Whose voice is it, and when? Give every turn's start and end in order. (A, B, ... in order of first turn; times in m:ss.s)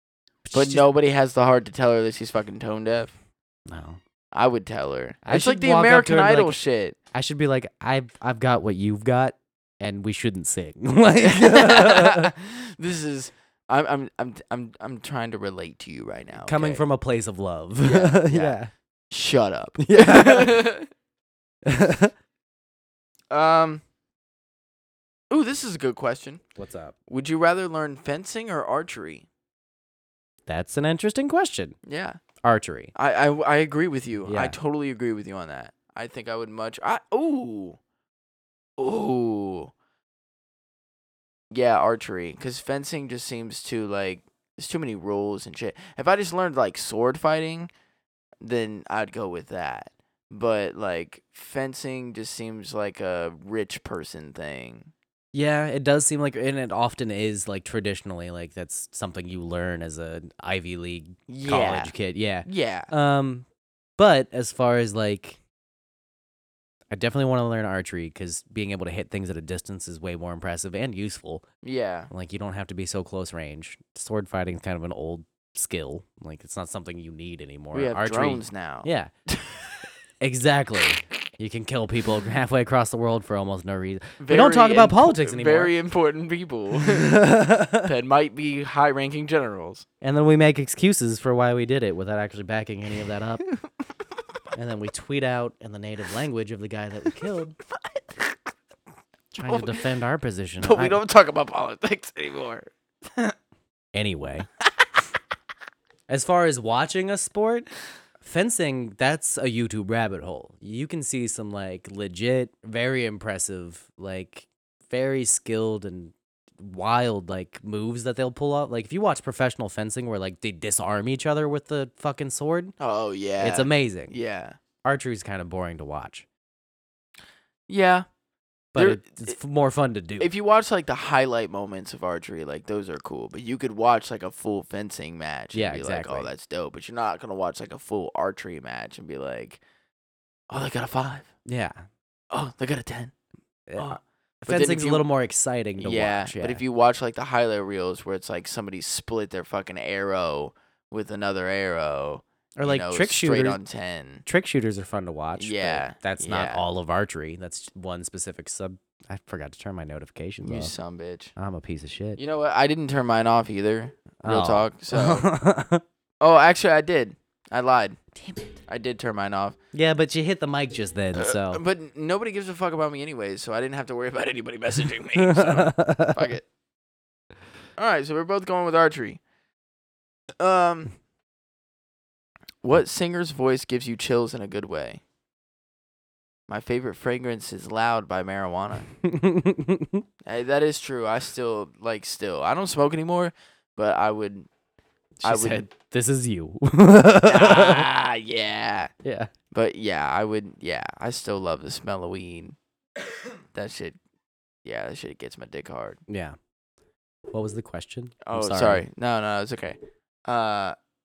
0:00.4-0:00.8 A
0:00.5-0:03.2 B
0:03.7-0:04.0 A
0:04.3-0:07.0 B
0:05.2-0:06.6 A
0:07.1-0:12.3 A
0:11.2-0:16.8 B
0:16.4-0:18.7 A
0:17.8-0:18.6 B
0:19.1-0:20.9 B
0:19.8-0:20.6 A
0:21.7-0:22.1 A
0:23.3-0:23.8 B
0:25.3-0:26.4 B
0:26.6-0:27.0 A
0:27.1-0:29.3 B
0:30.5-0:31.8 A
0:31.8-0:32.2 B
0:32.4-0:32.9 A
0:33.0-0:37.8 B
0:34.3-0:34.6 A
0:38.8-0:39.7 B
0:41.5-0:47.7 B
0:48.4-0:54.9 B
0:55.3-1:03.5 A
1:01.3-1:02.9 B
1:04.0-1:05.4 A
1:06.9-1:11.5 A
1:11.6-1:12.1 B
1:12.1-1:19.1 A
1:17.7-1:19.8 B
1:20.2-1:25.7 A
1:24.2-1:27.2 B
1:26.8-1:27.9 A
1:27.8-1:29.9 B
1:30.0-1:33.4 A
1:34.5-1:37.6 A
1:38.0-1:38.3 B
1:39.4-1:41.0 A
1:39.4-1:39.8 B
1:40.6-1:43.3 B
1:43.9-1:44.5 A
1:46.1-1:47.7 A
1:48.2-2:02.8 A
2:02.8-2:04.6 B
2:03.4-2:04.1 A
2:04.8-2:06.3 A
2:07.7-2:08.1 B
2:08.7-2:10.3 A
2:08.8-2:09.4 B
2:10.2-2:19.6 B
2:15.5-2:16.3 A
2:20.5-2:21.3 B
2:21.5-2:21.8 A
2:22.3-2:23.1 B
2:23.7-2:26.6 A
2:23.8-2:25.0 B
2:25.8-2:34.2 B
2:32.6-2:33.6 A
2:34.3-2:40.7 A
2:35.4-2:36.6 B
2:40.4-2:41.3 B
2:41.4-2:42.2 A
2:42.2-2:45.2 B
2:44.2-2:45.8 A
2:46.2-2:48.0 B
2:48.1-2:48.6 A
2:48.7-2:49.6 B
2:49.7-2:51.6 A
2:51.2-2:56.4 B
2:55.2-2:56.2 A
2:57.8-2:59.2 B
3:00.4-3:01.0 B
3:02.6-3:05.0 B
3:06.5-3:08.9 B
3:09.0-3:10.0 A
3:10.2-3:14.5 B
3:15.2-3:17.8 A
3:15.2-3:15.7 B
3:17.3-3:18.9 B
3:19.0-3:19.3 A
3:19.5-3:22.6 B
3:23.5-3:24.0 B
3:24.6-3:26.0 B
3:26.1-3:26.4 A
3:27.3-3:28.9 A
3:28.2-3:30.8 B